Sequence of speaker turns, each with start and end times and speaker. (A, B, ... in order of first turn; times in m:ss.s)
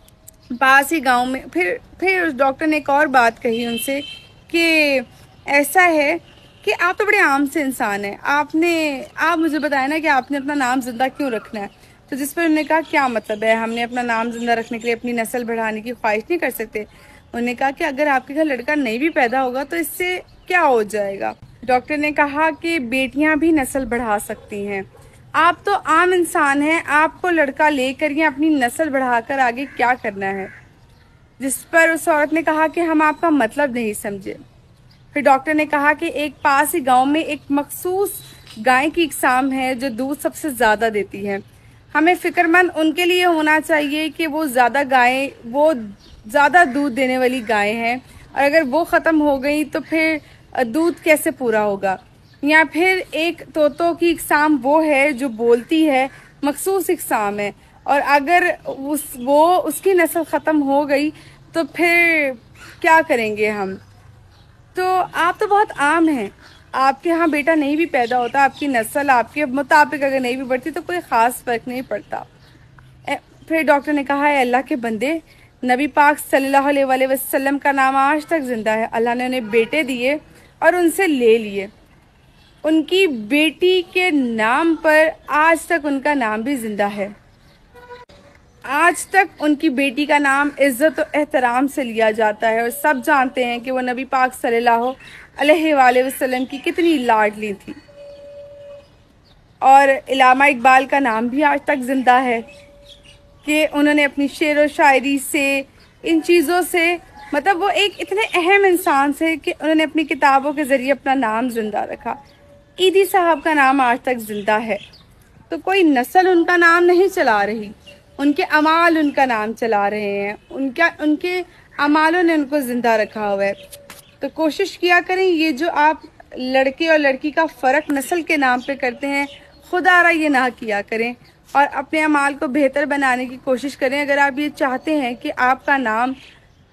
0:00.6-0:24.8 A
0:25.4-0:30.5 A
0:31.4-0:34.4 A
0:35.1-0:41.4 A
0:41.9-1:03.8 A
1:04.7-1:12.2 A
1:13.1-1:21.7 A
1:22.6-1:27.1 A
1:28.7-1:37.8 A
1:39.6-1:42.4 A
1:43.4-1:52.2 A
1:52.8-1:54.8 A
1:55.5-2:03.6 A
2:04.2-2:16.2 A